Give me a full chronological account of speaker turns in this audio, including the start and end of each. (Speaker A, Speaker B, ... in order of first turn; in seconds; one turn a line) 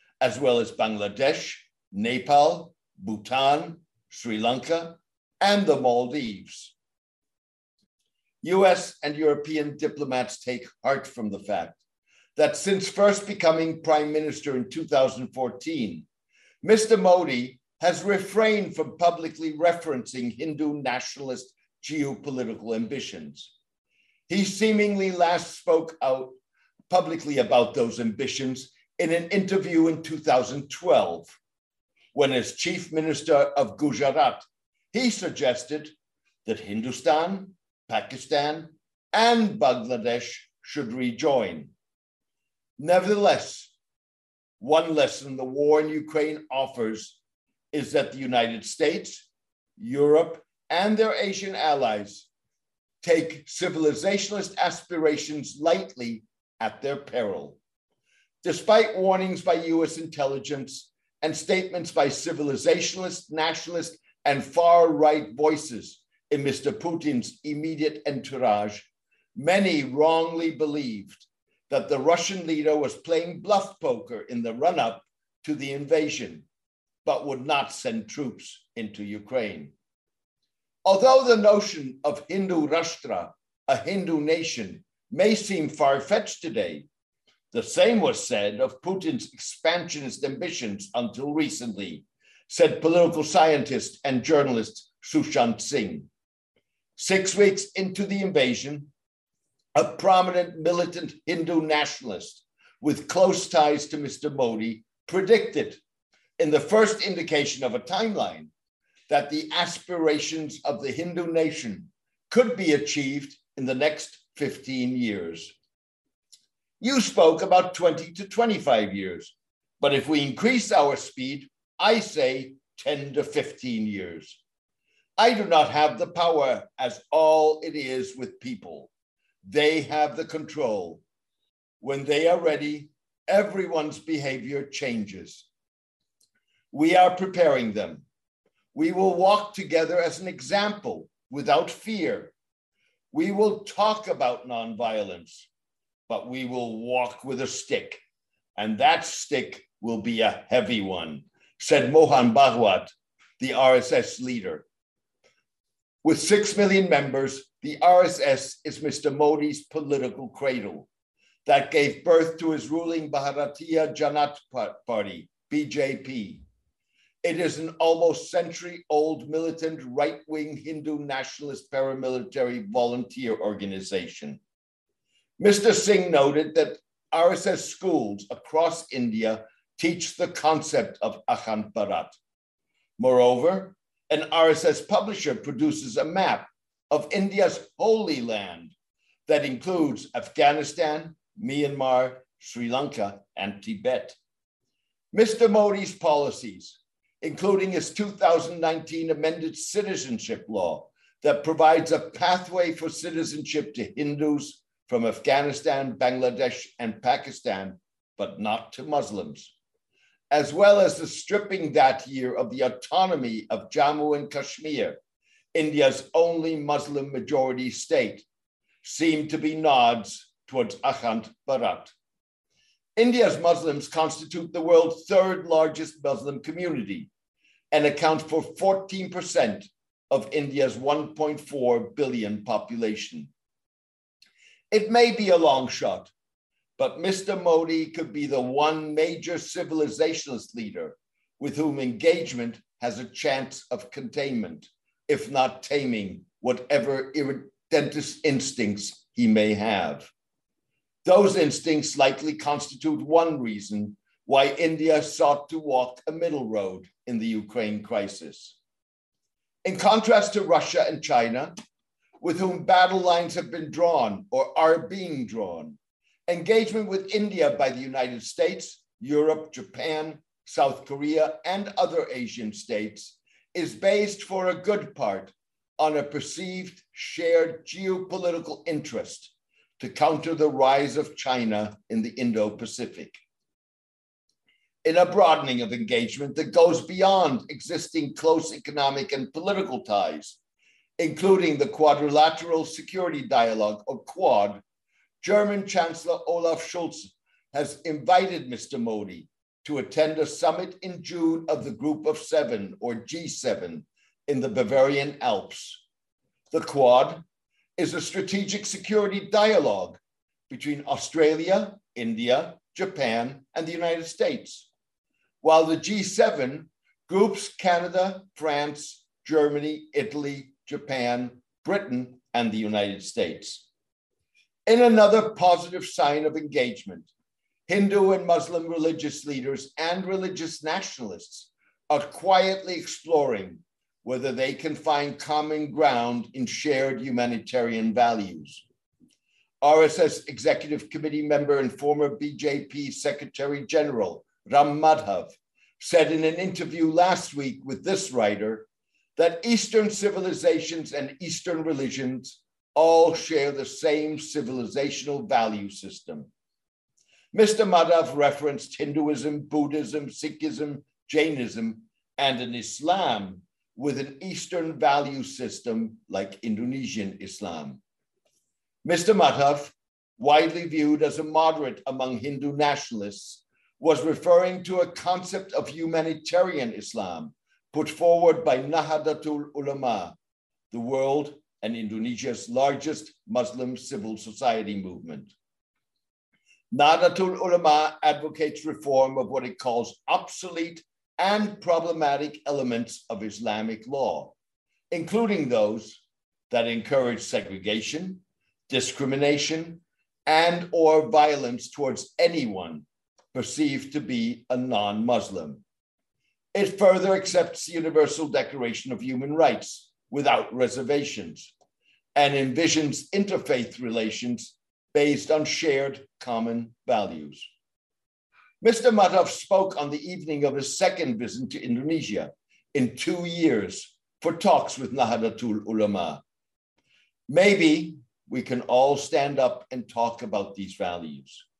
Speaker A: 0.2-6.7
Speaker A: 8.4-11.8
Speaker A: 12.3-16.0
Speaker A: 16.6-23.5
Speaker A: 24.3-26.3
Speaker A: 26.9-31.4
Speaker A: 32.1-35.9
Speaker A: 36.4-41.7
Speaker A: 42.8-43.7
Speaker A: 44.6-47.2
Speaker A: 47.7-49.3
Speaker A: 49.8-52.3
Speaker A: 53.0-57.6
Speaker A: 58.4-76.5
Speaker A: 77.0-79.7
Speaker A: 80.8-86.8
Speaker A: 87.5-96.1
Speaker A: 97.0-98.9
Speaker A: 99.7-105.8
Speaker A: 106.4-108.5
Speaker A: 109.1-115.5
Speaker A: 116.8-124.4
Speaker A: 125.2-128.9
Speaker A: 129.4-131.0
Speaker A: 131.8-135.5
Speaker A: 136.7-138.0
Speaker A: 138.7-142.3
Speaker A: 143.1-145.5
Speaker A: 146.1-148.0
Speaker A: 148.6-154.7
Speaker A: 156.0-160.9
Speaker A: 161.4-166.4
Speaker A: 167.2-174.4
Speaker A: 175.4-182.2
Speaker A: 183.0-188.7
Speaker A: 189.3-194.2
Speaker A: 195.1-209.5
Speaker A: 210.3-215.0
Speaker A: 215.5-218.2
Speaker A: 218.8-221.9
Speaker A: 222.9-227.1
Speaker A: 227.7-233.3
Speaker A: 234.7-236.1
Speaker A: 236.8-250.1
Speaker A: 251.0-258.6
Speaker A: 259.6-261.5
Speaker A: 262.2-283.2
Speaker A: 284.8-290.4
Speaker A: 291.0-294.6
Speaker A: 295.2-305.8
Speaker A: 306.5-307.2
Speaker A: 307.8-310.0
Speaker A: 310.5-314.7
Speaker A: 315.4-323.7
Speaker A: 324.7-327.1
Speaker A: 327.7-338.6
Speaker A: 339.6-356.3
Speaker A: 357.3-367.8
Speaker A: 368.8-380.1
Speaker A: 380.7-385.3
Speaker A: 386.7-394.3
Speaker A: 394.9-405.6
Speaker A: 406.5-411.5
Speaker A: 412.1-417.5
Speaker A: 418.6-426.2
Speaker A: 427.3-431.4